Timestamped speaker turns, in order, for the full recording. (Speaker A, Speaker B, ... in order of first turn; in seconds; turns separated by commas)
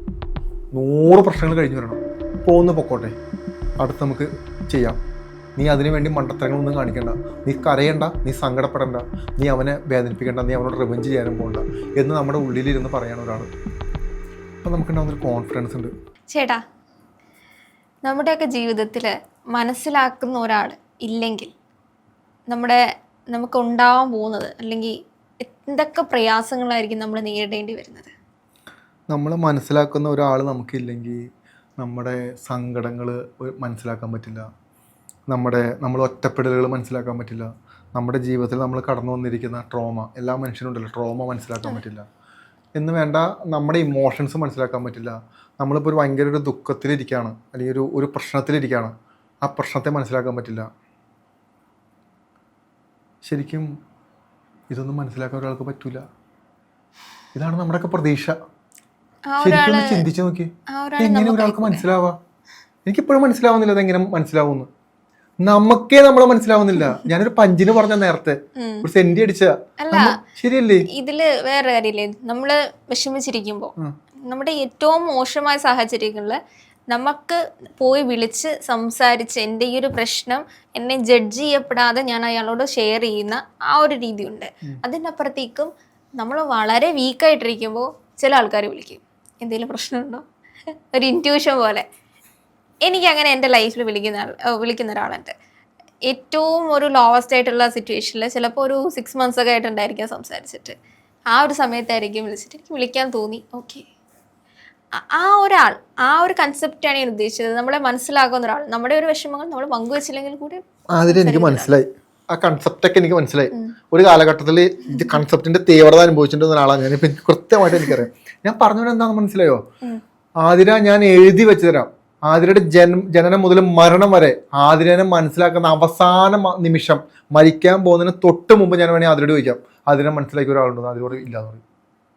Speaker A: 0.7-3.1, Speaker A: 3.8-5.0, Speaker A: 5.6-13.5, Speaker A: 14.6-15.9, Speaker B: 16.3-16.6, Speaker B: 18.0-21.5, Speaker B: 22.5-22.8, Speaker B: 23.3-28.1, Speaker A: 29.1-31.2, Speaker A: 31.8-34.4, Speaker A: 35.3-42.0, Speaker A: 42.8-50.7, Speaker A: 53.2-53.7, Speaker A: 54.7-56.0, Speaker A: 57.3-58.3, Speaker B: 59.3-60.0, Speaker A: 59.4-62.2, Speaker B: 60.7-61.8, Speaker A: 62.9-64.7, Speaker A: 65.4-70.9, Speaker B: 68.5-68.9, Speaker B: 69.8-70.2, Speaker B: 70.9-73.7, Speaker B: 74.2-76.4, Speaker B: 76.9-90.2, Speaker B: 90.9-91.8, Speaker B: 92.8-95.3, Speaker B: 96.1-100.7, Speaker B: 101.3-103.8, Speaker B: 104.9-111.7, Speaker A: 110.9-119.6, Speaker B: 114.9-115.2, Speaker A: 120.4-131.6